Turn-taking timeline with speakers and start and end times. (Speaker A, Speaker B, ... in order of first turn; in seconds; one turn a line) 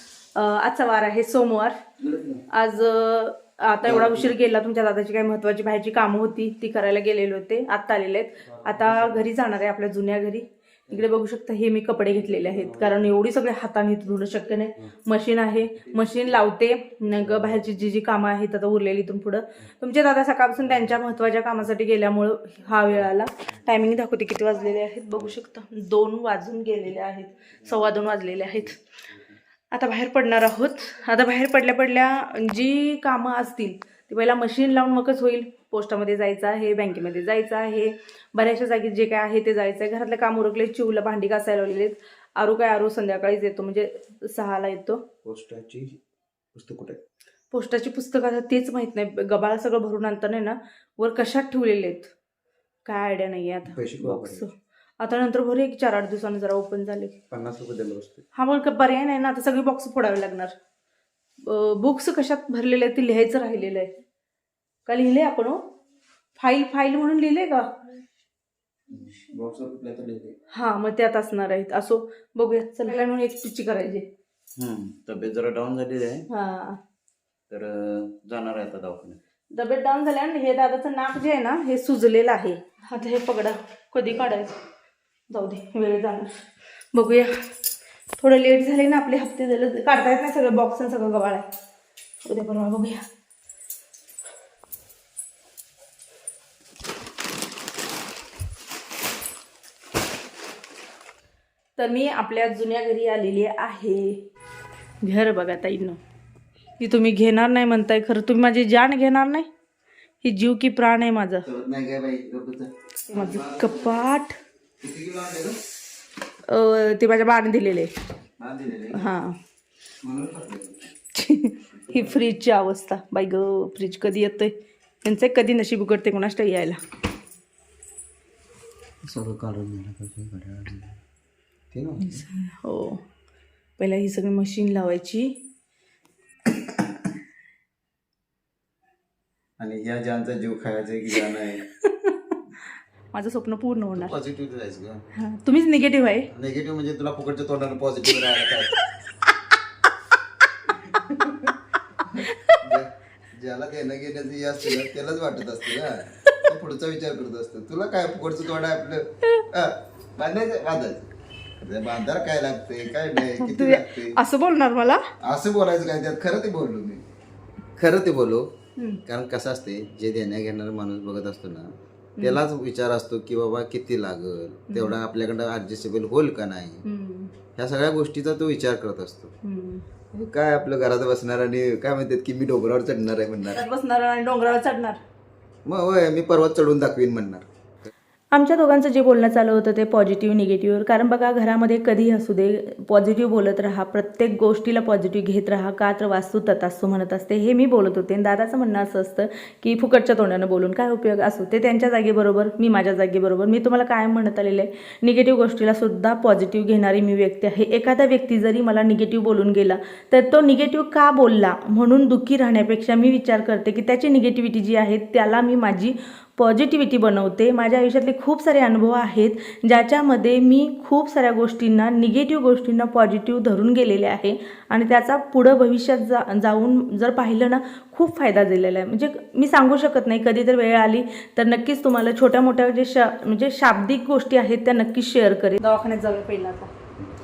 Speaker A: 0.3-1.8
Speaker B: 2.0-2.4
Speaker A: 2.5-28.8
Speaker B: 3.8-4.4
Speaker B: 8.4-9.3
Speaker B: 12.1-13.1
Speaker B: 15.8-16.4
Speaker B: 17.1-17.9
Speaker B: 20.6-21.2
Speaker B: 28.5-29.4
Speaker A: 29.7-45.0
Speaker B: 45.2-46.0
Speaker B: 46.5-47.0
Speaker A: 47.5-52.1
Speaker A: 52.8-57.1
Speaker B: 53.7-54.4
Speaker B: 57.3-58.2
Speaker A: 58.3-60.5
Speaker A: 61.4-63.9
Speaker A: 64.8-65.6
Speaker A: 66.3-67.7
Speaker B: 68.9-70.3
Speaker A: 70.5-74.0
Speaker B: 74.6-76.3
Speaker A: 76.3-76.8
Speaker B: 77.5-79.2
Speaker A: 79.5-84.5
Speaker A: 85.3-87.3
Speaker A: 88.2-91.5
Speaker A: 92.2-93.0
Speaker A: 101.8-104.2
Speaker A: 105.0-106.0
Speaker A: 106.8-109.5
Speaker A: 110.2-111.5
Speaker B: 111.5-114.1
Speaker A: 113.1-114.3
Speaker B: 114.8-115.6
Speaker A: 116.5-117.9
Speaker B: 118.4-119.1
Speaker A: 118.9-119.4
Speaker B: 120.0-120.9
Speaker A: 121.1-126.8
Speaker B: 121.9-122.2
Speaker B: 129.0-130.9
Speaker B: 131.7-132.2
Speaker A: 132.0-133.0
Speaker A: 133.8-135.3
Speaker B: 136.4-137.0
Speaker B: 139.6-141.6
Speaker A: 141.8-142.3
Speaker A: 143.1-144.1
Speaker B: 143.9-145.0
Speaker A: 145.1-146.3
Speaker B: 146.3-148.7
Speaker B: 150.7-151.5
Speaker B: 152.1-161.1
Speaker A: 152.2-152.6
Speaker B: 161.6-164.2
Speaker A: 163.2-165.0
Speaker B: 165.2-167.0
Speaker B: 167.8-168.5
Speaker B: 169.1-176.8
Speaker A: 172.2-172.4
Speaker A: 174.7-174.9
Speaker A: 176.8-177.3
Speaker B: 177.6-179.3
Speaker A: 179.4-179.8
Speaker B: 180.1-183.6
Speaker A: 183.5-185.0
Speaker B: 185.7-187.4
Speaker A: 188.3-236.7